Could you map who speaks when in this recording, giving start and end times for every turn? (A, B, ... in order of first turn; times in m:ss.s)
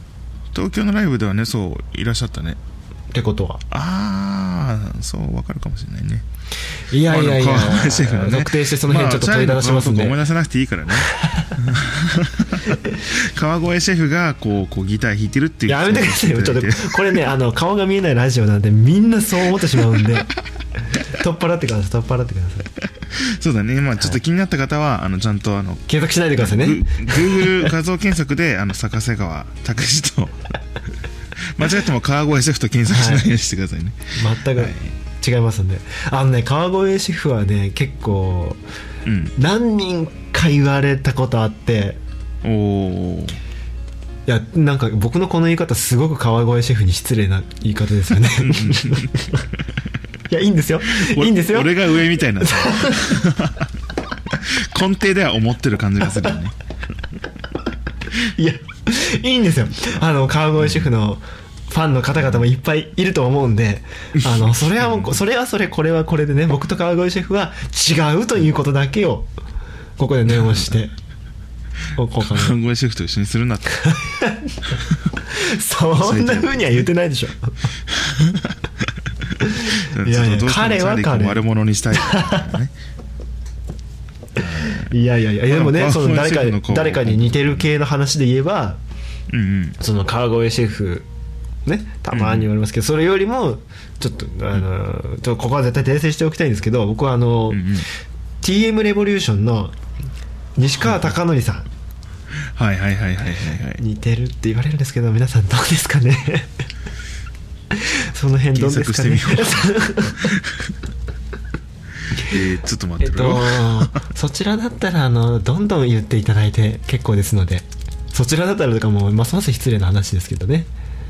0:00.5-0:02.6 A
0:03.1-0:03.6 B
0:03.7-0:06.2 A
0:06.9-0:10.2 B
0:07.1-0:17.2 A
0:10.9-0:11.6 B
0:15.7-0:20.3 B
0:20.9-0:22.7 B
0:23.1-0:30.4 A
0:25.9-0:27.7 B
0:31.4-0:34.9 A
0:32.9-0:33.3 B
0:34.1-0:38.6 B
0:39.0-0:39.3 A
0:39.3-0:42.0 B
0:42.4-0:43.4 A
0:44.3-0:49.4 B
0:48.3-0:49.1 A
0:50.3-0:53.2 B
0:50.8-0:53.7 A
0:54.3-0:56.5 A
0:58.1-1:09.3 B
1:04.2-1:05.1 A
1:10.0-1:10.9 B
1:11.9-1:12.6 B
1:12.2-1:13.9 A
1:13.8-1:14.6 B
1:15.2-1:17.5 B
1:16.0-1:16.8 A
1:17.9-1:18.6 A
1:19.4-1:21.4 B
1:19.5-1:22.7 A
1:22.0-1:22.4 B
1:24.4-1:24.9 A
1:24.4-1:28.8 B
1:25.4-1:27.7 A
1:29.3-1:29.8 A
1:29.8-1:31.0 B
1:31.6-1:37.7 B
1:32.1-1:32.5 A
1:37.5-1:37.9 A
1:38.4-1:39.7 B
1:40.6-1:41.7 B
1:42.5-1:43.8 A
1:43.8-1:46.5 B
1:47.7-1:50.4 B
1:48.5-1:50.7 A
1:52.1-1:54.0 A
1:53.0-2:00.7 B